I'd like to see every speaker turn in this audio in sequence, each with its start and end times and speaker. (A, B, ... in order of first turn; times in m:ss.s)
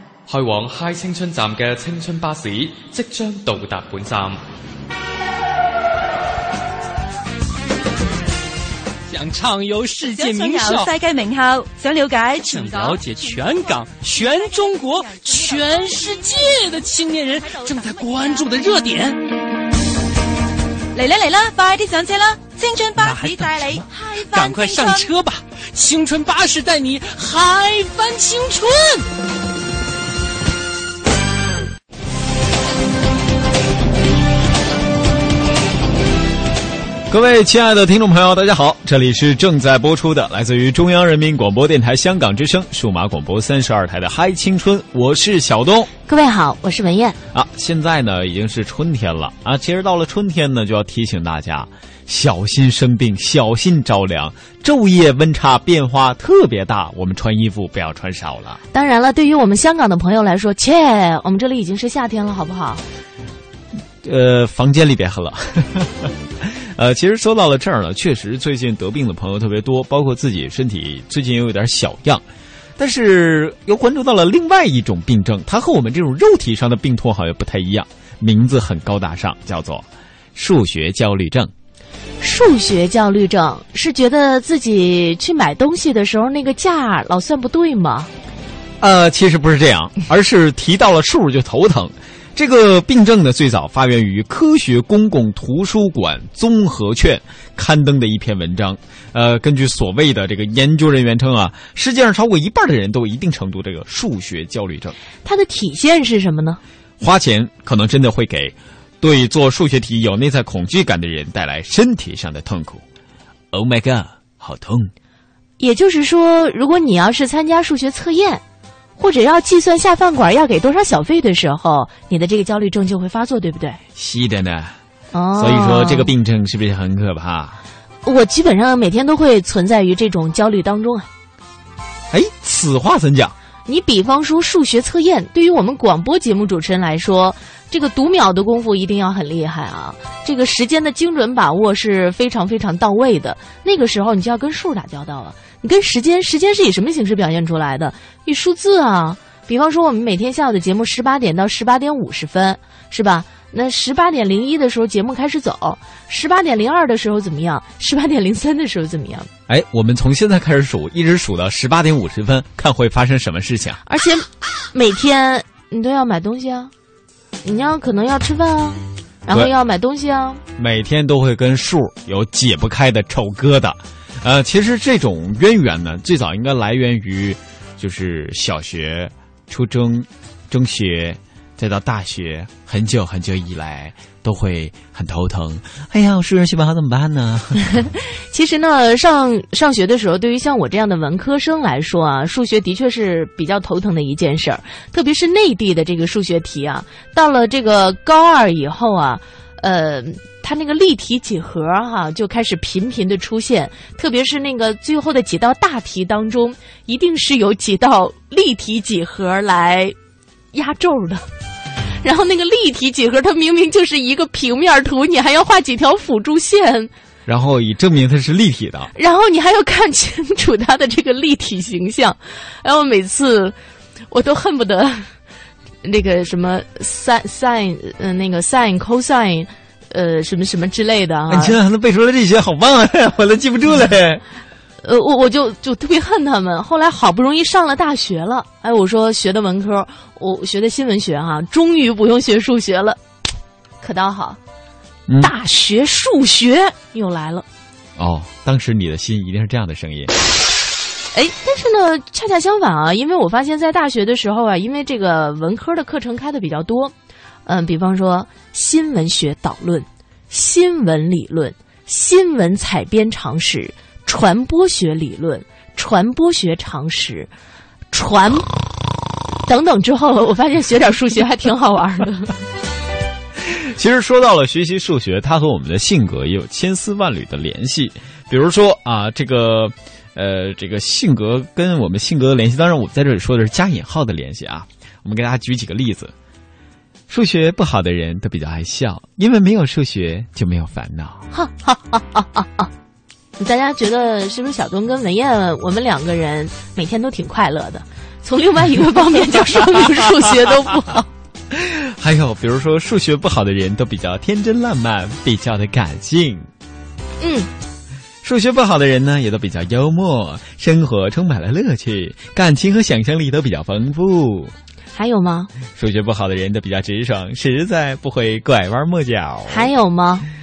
0:00.3-0:04.4 A
0:09.1-0:10.9 B
0:10.1-0:13.0 C
0:12.4-0:19.2 B
0:12.8-0:13.2 A
0:20.9-0:25.1 C
0:23.0-0:29.1 B
0:37.1-0:45.9 D
0:46.1-0:47.2 E
0:47.3-0:58.6 D
0:58.7-1:02.8 E
1:04.0-1:12.2 D
1:12.8-1:21.5 D
1:22.2-1:28.1 E
1:28.8-1:45.0 D
1:45.2-1:46.6 E
1:47.0-1:52.8 D
1:53.5-1:54.9 D
1:55.6-1:58.4 E
1:59.0-2:03.8 E
2:04.0-2:04.8 D
2:05.1-2:06.1 E
2:05.4-2:07.6 D
2:08.0-2:11.1 E
2:12.1-2:13.3 D
2:13.7-2:39.3 E
2:39.5-2:43.8 D
2:43.9-2:46.7 E
2:47.4-2:50.4 E
2:50.6-3:07.7 D
3:08.3-3:30.0 E
3:30.5-3:31.3 E
3:32.0-3:36.9 E
3:37.3-3:38.9 D
3:39.0-3:43.6 E
3:44.1-3:45.1 E
3:45.8-3:51.6 E
3:51.3-3:54.2 D
3:54.8-4:03.0 E
4:03.8-4:04.4 E
4:05.1-4:05.3 D
4:05.2-4:07.5 E
4:08.0-4:10.1 D
4:11.1-4:16.9 E
4:17.5-4:27.3 E
4:27.9-4:28.5 E
4:29.5-4:32.3 E
4:33.4-4:46.1 D
4:47.1-4:51.2 D
4:51.3-4:52.7 E
4:53.4-5:01.1 E
5:01.5-5:06.5 D
5:07.2-5:07.5 E
5:08.2-5:14.5 D
5:15.0-5:15.5 E
5:15.8-5:19.7 D
5:19.5-5:20.3 E